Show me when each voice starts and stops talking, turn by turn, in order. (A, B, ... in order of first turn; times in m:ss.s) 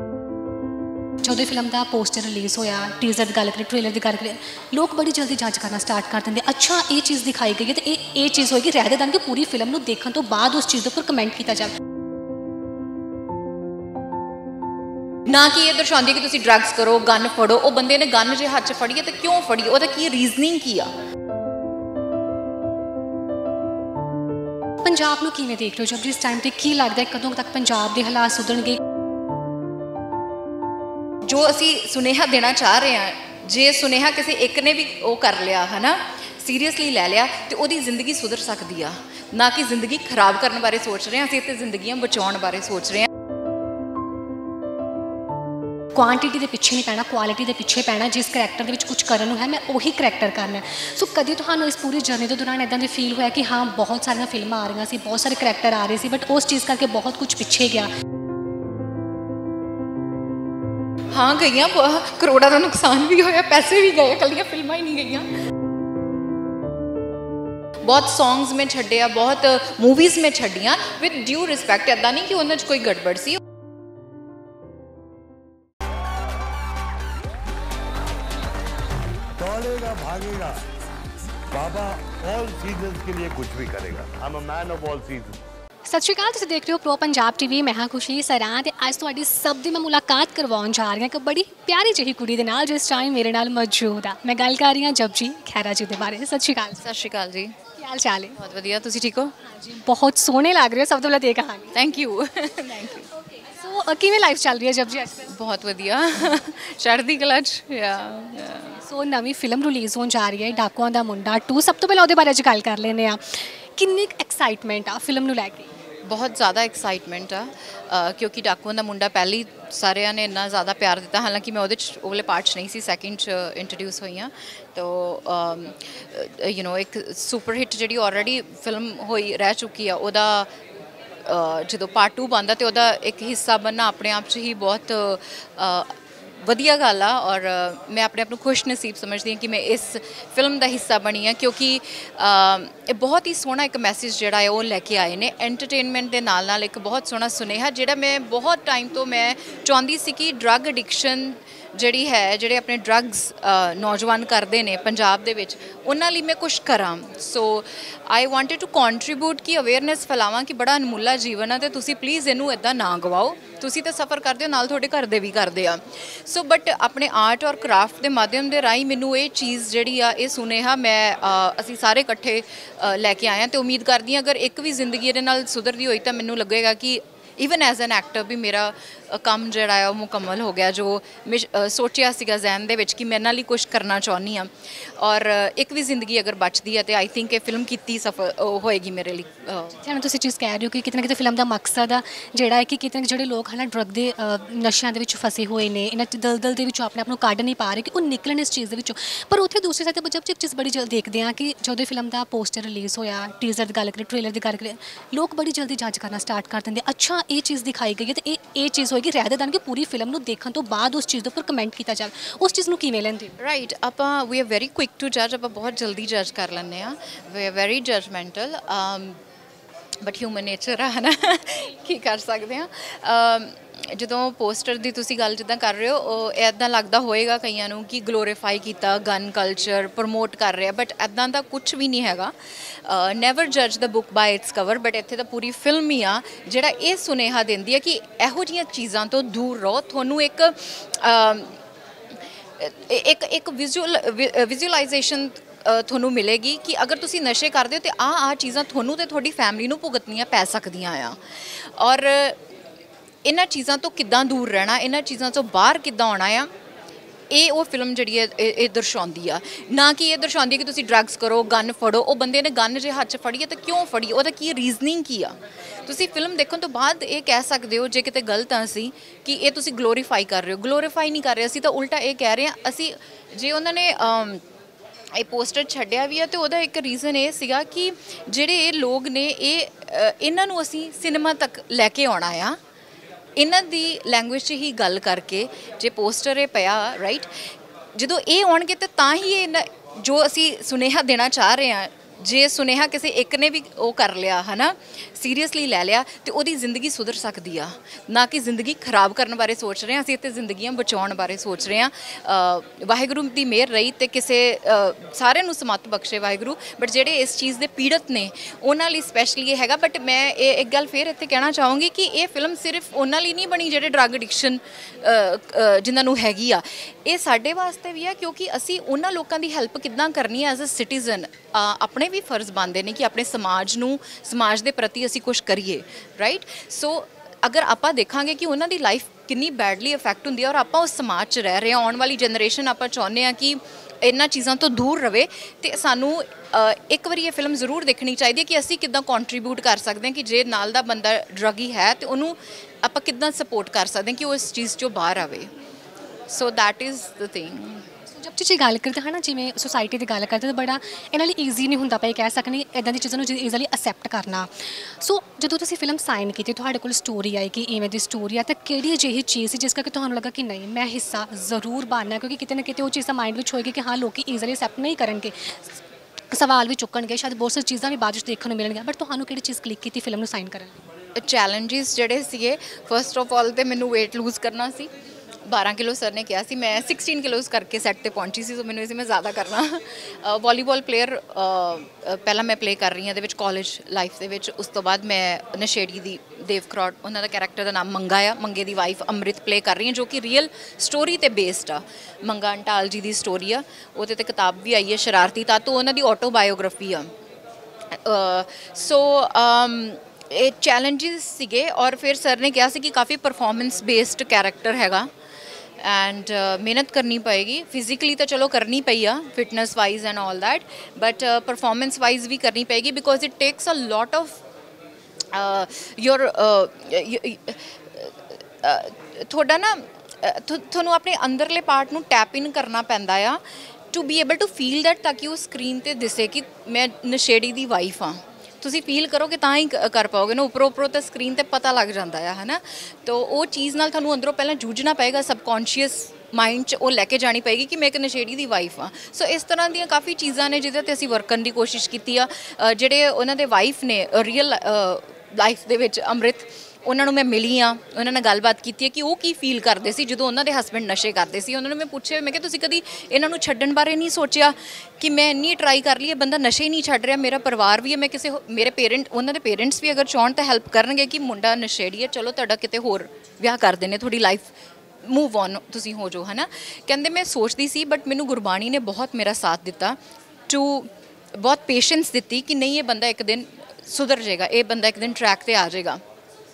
0:01.2-0:11.7 A
0:15.3-0:20.9 B
0:24.8-0:28.8 A
0:31.2-0:43.1 B
0:46.0-0:57.9 A
1:01.1-1:05.4 B
1:07.8-1:13.4 B
1:19.4-1:20.6 C
1:21.5-1:25.4 C
1:25.9-1:36.8 A
1:36.8-1:37.6 B
1:37.8-1:38.4 A
1:38.4-1:39.3 B
1:39.4-1:41.7 A
1:41.7-1:43.1 B
1:43.4-1:45.3 A
1:45.3-1:48.8 B
1:48.8-1:55.7 A
1:56.0-2:10.5 B
2:11.2-3:09.8 B
3:09.8-3:33.3 A
3:33.4-3:39.2 B
3:40.0-4:01.6 B
4:02.6-4:12.4 B
4:13.2-4:16.5 B
4:17.3-4:34.4 B
4:35.1-4:42.6 B
4:43.4-4:47.3 B
4:47.9-5:45.5 B
5:46.3-5:47.9 B
5:48.1-6:10.8 A
6:11.2-6:14.9 B
6:15.5-6:37.1 B
6:37.9-6:45.1 B
6:45.8-6:54.4 B
6:55.3-7:44.5 B
7:45.0-7:50.0 B
7:50.5-7:56.0 B